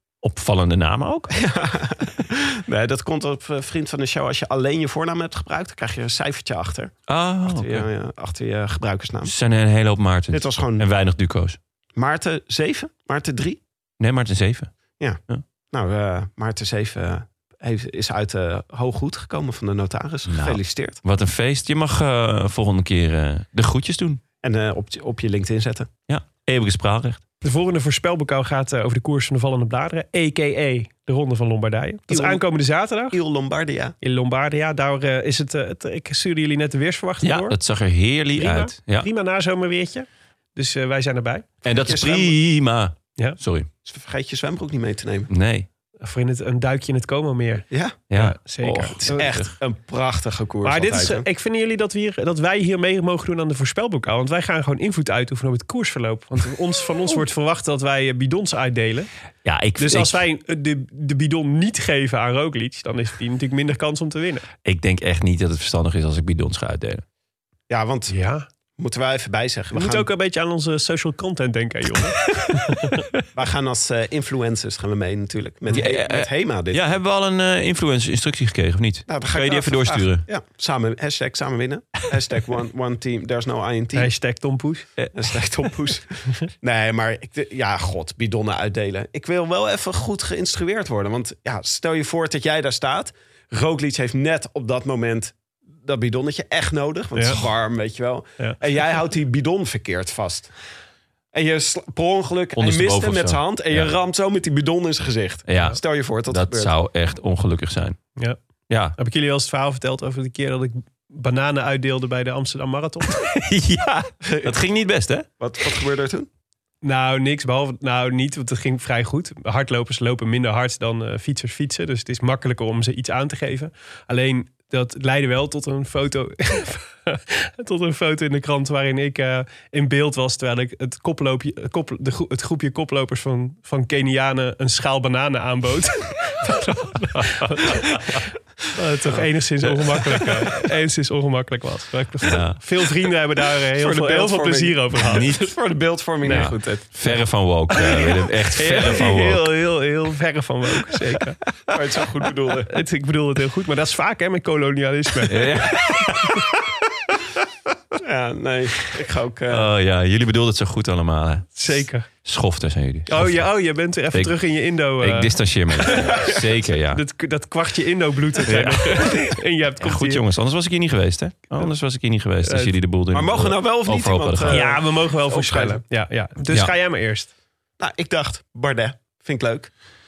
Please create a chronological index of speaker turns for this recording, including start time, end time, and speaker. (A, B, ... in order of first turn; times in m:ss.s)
0:00.2-0:01.3 A
0:01.3-0:09.4 B
0:07.1-0:07.9 A
0:09.2-0:11.6 A
0:10.3-0:10.9 B
0:12.0-0:13.6 B
0:14.0-0:14.7 A
0:15.0-0:21.0 B
0:20.3-0:24.2 A
0:24.4-0:25.9 B
0:26.1-0:27.2 A
0:27.4-0:33.2 C
0:32.1-0:32.4 B
0:33.1-0:34.0 B
0:34.0-0:37.6 C
0:37.2-0:39.1 A
0:38.4-0:41.4 C
0:41.6-0:43.7 A
0:41.7-0:42.4 B
0:43.8-0:45.3 B
0:45.3-0:45.7 A
0:46.0-0:49.3 C
0:47.7-0:48.0 B
0:48.1-0:49.5 A
0:49.0-0:51.3 B
0:50.6-0:59.1 C
0:59.4-1:00.2 A
0:59.8-1:04.4 C
1:04.6-1:07.0 A
1:07.7-1:08.1 B
1:08.1-1:08.5 C
1:08.8-1:10.1 B
1:09.7-1:13.0 C
1:13.4-1:16.8 B
1:15.7-1:20.2 A
1:19.1-1:24.1 B
1:24.0-1:24.9 C
1:25.1-1:40.5 B
1:37.2-1:37.4 C
1:41.3-1:46.7 B
1:42.6-1:43.9 A
1:45.5-1:48.0 A
1:48.7-1:49.0 A
1:49.0-1:53.1 C
1:53.1-1:55.3 A
1:54.2-1:54.6 B
1:55.4-1:56.3 B
1:56.8-2:18.2 C
2:18.7-2:25.3 C
2:19.6-2:20.2 A
2:22.2-2:22.6 A
2:23.7-2:27.2 B
2:25.1-2:25.6 A
2:26.2-2:29.4 A
2:27.7-2:31.4 C
2:31.7-2:32.8 B
2:32.7-2:35.4 C
2:35.3-2:36.4 A
2:38.0-2:39.7 B
2:39.5-2:43.4 A
2:41.6-2:42.1 C
2:43.1-2:45.3 C
2:44.1-2:44.4 A
2:45.0-2:47.0 A
2:45.8-2:46.2 C
2:46.9-2:50.2 C
2:48.4-2:54.8 A
2:52.4-2:52.7 C
2:53.1-2:55.8 B
2:54.5-2:57.3 C
2:57.8-2:59.7 B